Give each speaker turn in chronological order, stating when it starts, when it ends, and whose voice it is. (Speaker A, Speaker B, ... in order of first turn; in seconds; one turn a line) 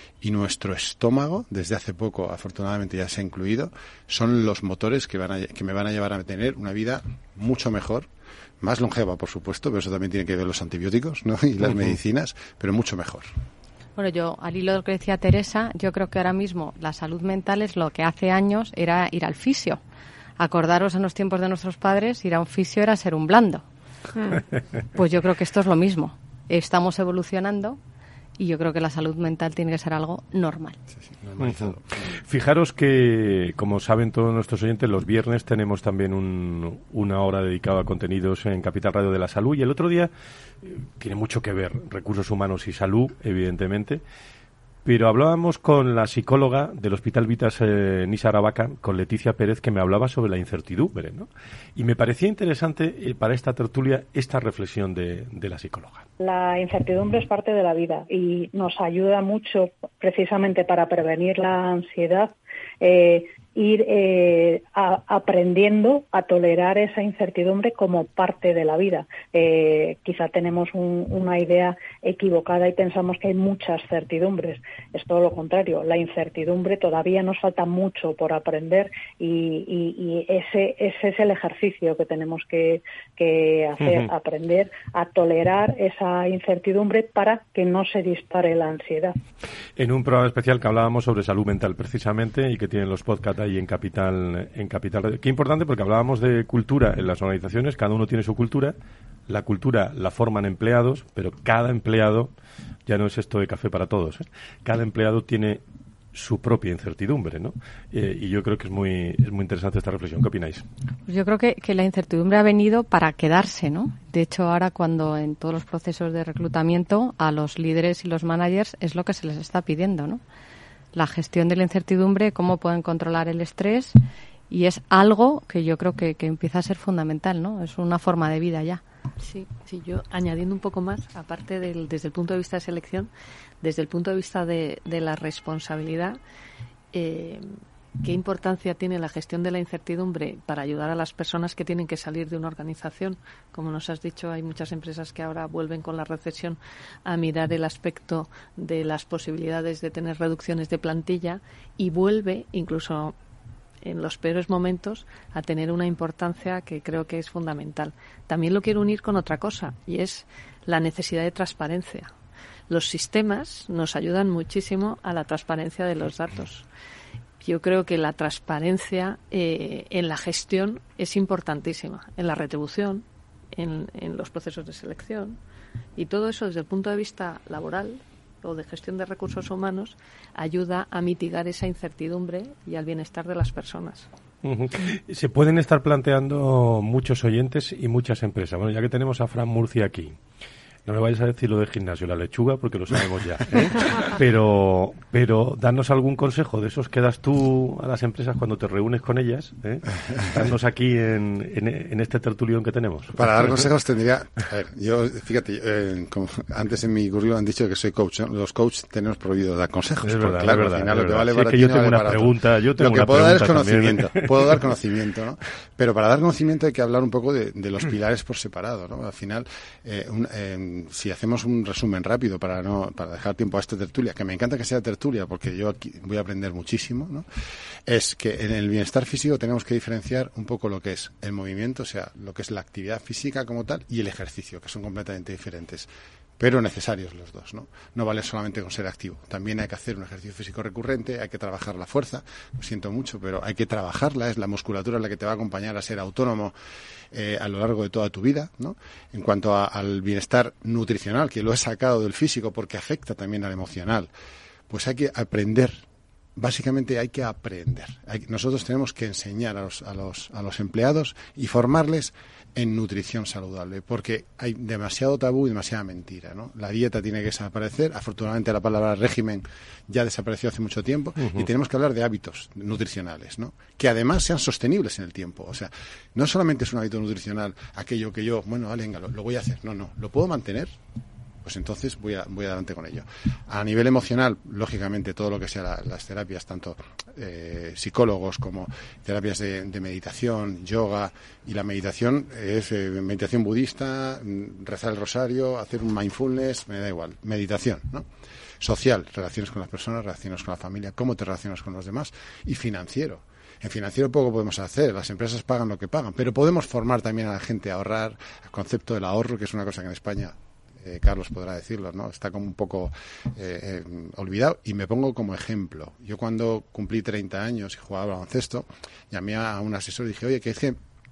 Speaker A: 0.2-8.1
Speaker A: 8.6-13.3
Speaker B: 14.0-19.8
Speaker B: 20.4-23.6
Speaker B: 24.9-27.8
Speaker B: 28.4-30.8
Speaker A: 31.0-31.8
Speaker C: 31.4-40.1
Speaker C: 40.6-44.0
Speaker C: 44.9-56.1
Speaker D: 56.2-89.1
Speaker C: 83.8-84.1
Speaker C: 89.8-98.8
Speaker C: 99.3-102.3
Speaker C: 102.9-105.6
Speaker C: 106.1-110.6
Speaker B: 111.1-120.2
Speaker B: 120.9-123.9
Speaker B: 124.5-128.8
Speaker E: 129.2-133.1
Speaker E: 133.6-136.2
Speaker E: 136.9-153.2
Speaker E: 153.8-162.1
Speaker E: 162.7-166.7
Speaker E: 167.4-175.4
Speaker E: 176.0-184.1
Speaker C: 184.4-190.2
Speaker C: 190.9-203.3
Speaker A: 203.2-227.2
Speaker C: 210.0-214.6
Speaker A: 227.9-246.5
Speaker A: 247.1-254.1
Speaker A: 254.7-255.8
Speaker A: 256.4-280.7
Speaker C: 271.2-271.5
Speaker A: 281.4-298.1
Speaker A: 298.6-320.8